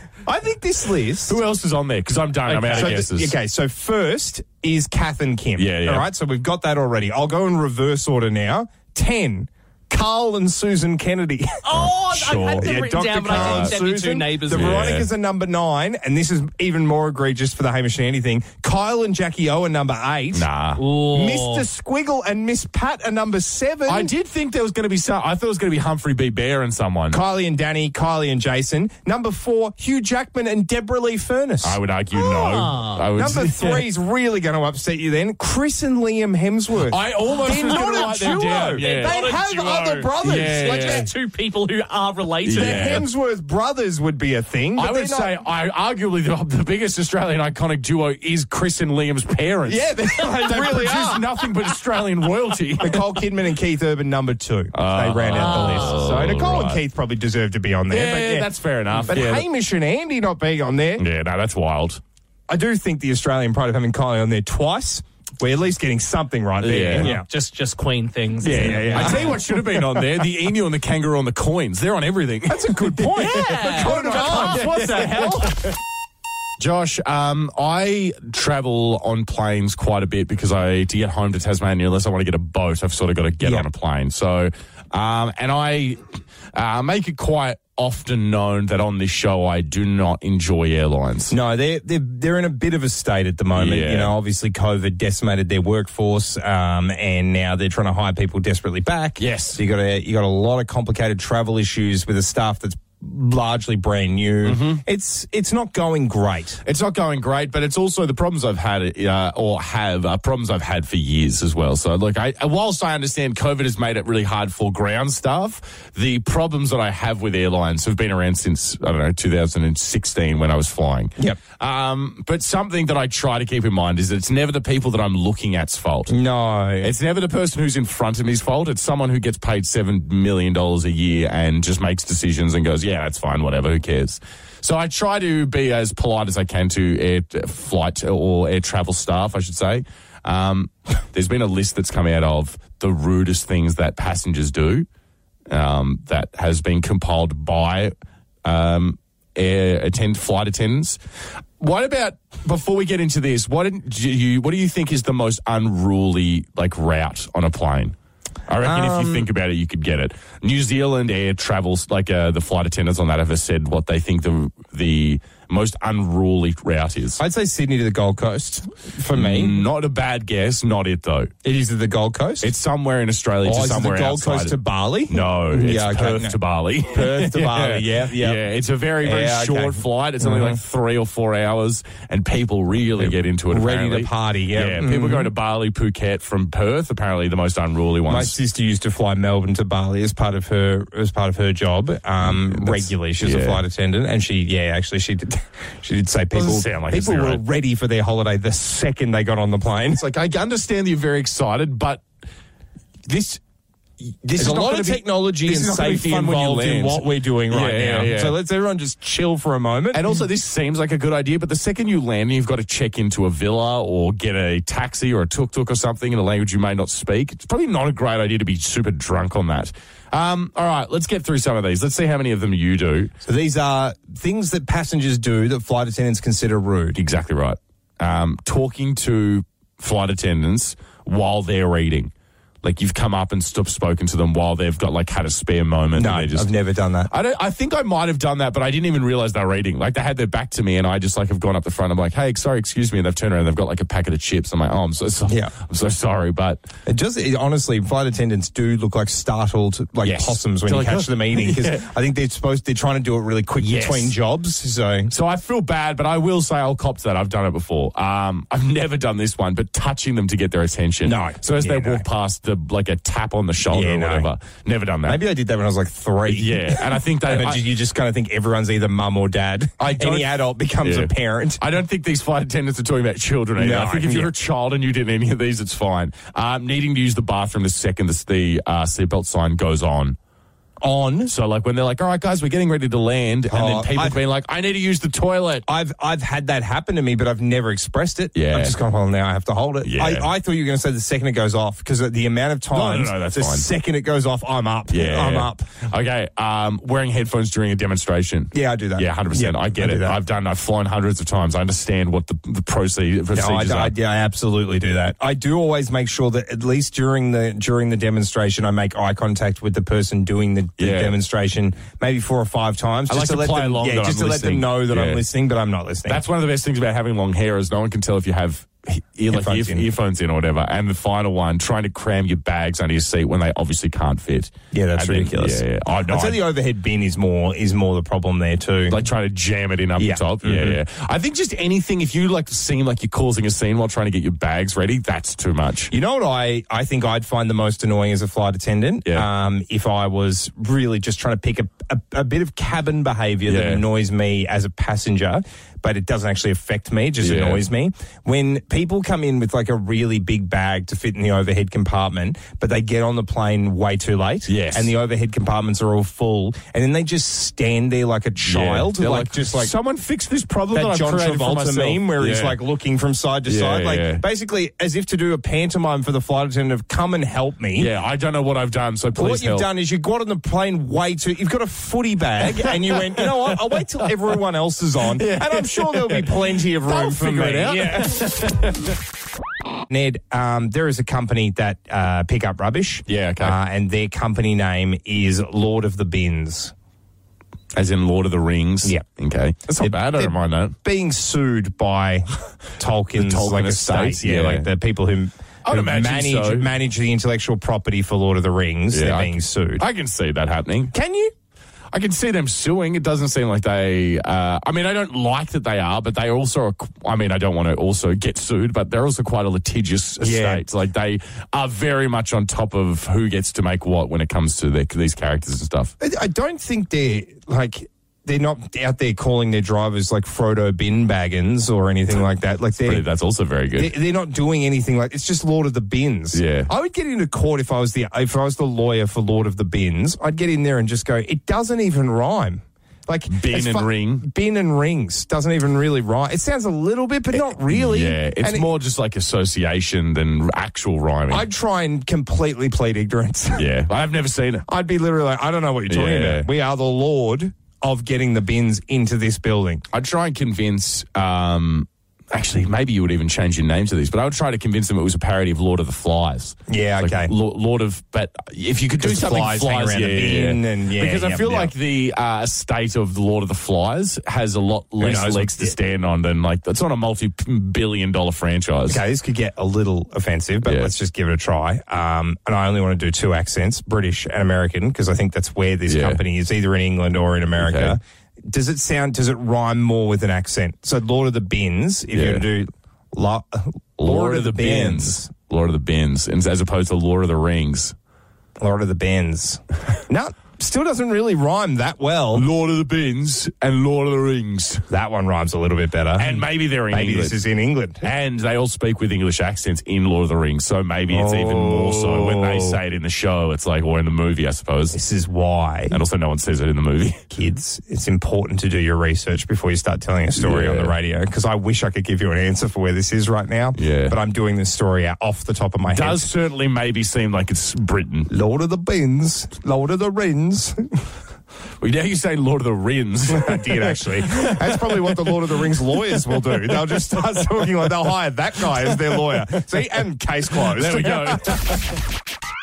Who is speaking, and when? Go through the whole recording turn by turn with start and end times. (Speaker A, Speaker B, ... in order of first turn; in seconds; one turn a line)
Speaker A: 0.3-1.4
Speaker B: 1.2-3.4
Speaker C: 2.5-3.0
Speaker A: 2.6-20.5
Speaker B: 5.6-6.1
Speaker C: 11.7-14.8
Speaker B: 11.7-12.7
Speaker B: 13.3-13.8
Speaker B: 14.5-15.1
Speaker B: 20.3-20.8
Speaker C: 20.8-21.6
Speaker A: 21.1-24.1
Speaker B: 23.9-27.2
Speaker A: 27.1-31.8
Speaker B: 31.6-33.9
Speaker C: 32.1-33.0
Speaker A: 33.1-41.1
Speaker B: 36.8-39.3
Speaker C: 37.3-43.0
Speaker B: 40.2-41.1
Speaker B: 42.4-43.0
Speaker A: 42.5-45.4
Speaker B: 44.8-53.0
Speaker A: 50.0-51.2
Speaker C: 50.0-51.1
Speaker A: 52.8-58.5
Speaker B: 54.7-56.8
Speaker C: 55.3-56.1
Speaker B: 57.9-59.5
Speaker A: 59.1-61.0
Speaker B: 61.0-62.0
Speaker A: 62.5-67.3
Speaker B: 66.6-67.2
Speaker C: 67.0-69.4
Speaker B: 68.4-75.8
Speaker A: 68.4-69.8
Speaker A: 72.5-75.4
Speaker C: 73.2-75.4
Speaker B: 76.6-91.3
Speaker A: 91.3-106.6
Speaker B: 93.5-94.1
Speaker B: 99.2-99.6
Speaker B: 104.4-104.8
Speaker B: 106.6-126.2
Speaker A: 126.1-126.9
Speaker B: 126.8-144.9
Speaker B: 145.5-151.0
Speaker B: 151.6-157.9
Speaker B: 158.5-167.2
Speaker A: 158.6-159.3
Speaker A: 167.2-169.6
Speaker B: 169.1-171.3
Speaker A: 171.4-172.5
Speaker B: 172.4-174.6
Speaker A: 173.4-176.4
Speaker B: 175.1-188.3
Speaker A: 176.9-178.4
Speaker A: 179.0-180.6
Speaker A: 183.0-185.3
Speaker A: 188.1-200.1
Speaker B: 192.2-193.6
Speaker B: 196.3-197.4
Speaker B: 199.9-202.1
Speaker B: 203.1-203.4
Speaker B: 204.0-208.4
Speaker A: 204.4-210.0
Speaker B: 209.9-223.1
Speaker A: 223.2-227.0
Speaker B: 226.9-232.1
Speaker B: 232.6-236.5
Speaker A: 235.9-237.1
Speaker B: 237.1-246.6
Speaker A: 245.3-245.5
Speaker A: 246.9-255.1
Speaker B: 250.0-251.9
Speaker B: 253.6-254.2
Speaker B: 255.1-265.2
Speaker A: 261.1-262.1
Speaker A: 263.7-264.3
Speaker A: 265.1-271.6
Speaker B: 266.3-267.6
Speaker B: 269.8-280.2
Speaker A: 273.6-274.3
Speaker A: 280.8-281.3
Speaker B: 281.3-285.7
Speaker A: 283.5-284.2
Speaker A: 285.7-295.7
Speaker B: 288.3-288.8
Speaker B: 289.8-290.3
Speaker B: 292.7-293.7
Speaker B: 294.9-303.9
Speaker A: 298.5-300.2
Speaker A: 303.3-316.2
Speaker B: 310.8-311.1
Speaker B: 313.1-315.2
Speaker B: 316.1-326.4
Speaker A: 319.3-319.9
Speaker A: 324.7-329.0
Speaker B: 328.9-335.9
Speaker A: 330.0-330.8
Speaker A: 335.9-359.7
Speaker B: 343.5-343.8
Speaker B: 347.2-347.6
Speaker B: 354.5-354.9
Speaker B: 358.4-362.6
Speaker A: 360.7-367.9
Speaker B: 363.5-364.2
Speaker B: 367.8-369.7
Speaker A: 369.1-378.3
Speaker B: 372.4-373.8
Speaker B: 375.1-379.0
Speaker A: 379.9-386.7
Speaker B: 383.1-383.6
Speaker B: 387.7-390.8
Speaker A: 389.7-399.8
Speaker B: 393.2-394.7
Speaker B: 395.6-396.7
Speaker B: 398.9-400.9
Speaker A: 400.9-401.3
Speaker B: 401.9-415.9
Speaker A: 410.2-410.6
Speaker A: 416.0-423.1
Speaker B: 422.8-423.9
Speaker A: 423.8-438.7
Speaker B: 426.3-426.7
Speaker B: 433.3-434.3
Speaker B: 437.3-441.5
Speaker A: 441.3-443.6
Speaker B: 443.5-444.7
Speaker A: 444.7-449.9
Speaker B: 445.9-446.5
Speaker B: 449.9-469.0
Speaker A: 456.7-457.3
Speaker A: 459.0-461.7
Speaker A: 465.0-465.8
Speaker A: 468.9-485.3
Speaker B: 470.6-470.9
Speaker B: 475.9-476.2
Speaker B: 477.6-478.0
Speaker B: 482.1-482.4
Speaker B: 484.0-487.9
Speaker A: 488.6-492.5
Speaker B: 492.3-494.9
Speaker A: 494.9-498.1
Speaker B: 496.2-497.4
Speaker B: 498.0-505.0
Speaker A: 501.1-502.8
Speaker A: 504.9-506.0
Speaker B: 505.9-507.2
Speaker A: 507.3-516.3
Speaker B: 510.4-510.9
Speaker B: 513.8-514.2
Speaker B: 515.9-518.3
Speaker A: 518.3-521.0
Speaker B: 521.8-526.7
Speaker A: 523.3-531.8
Speaker B: 528.8-529.2
Speaker B: 530.5-531.9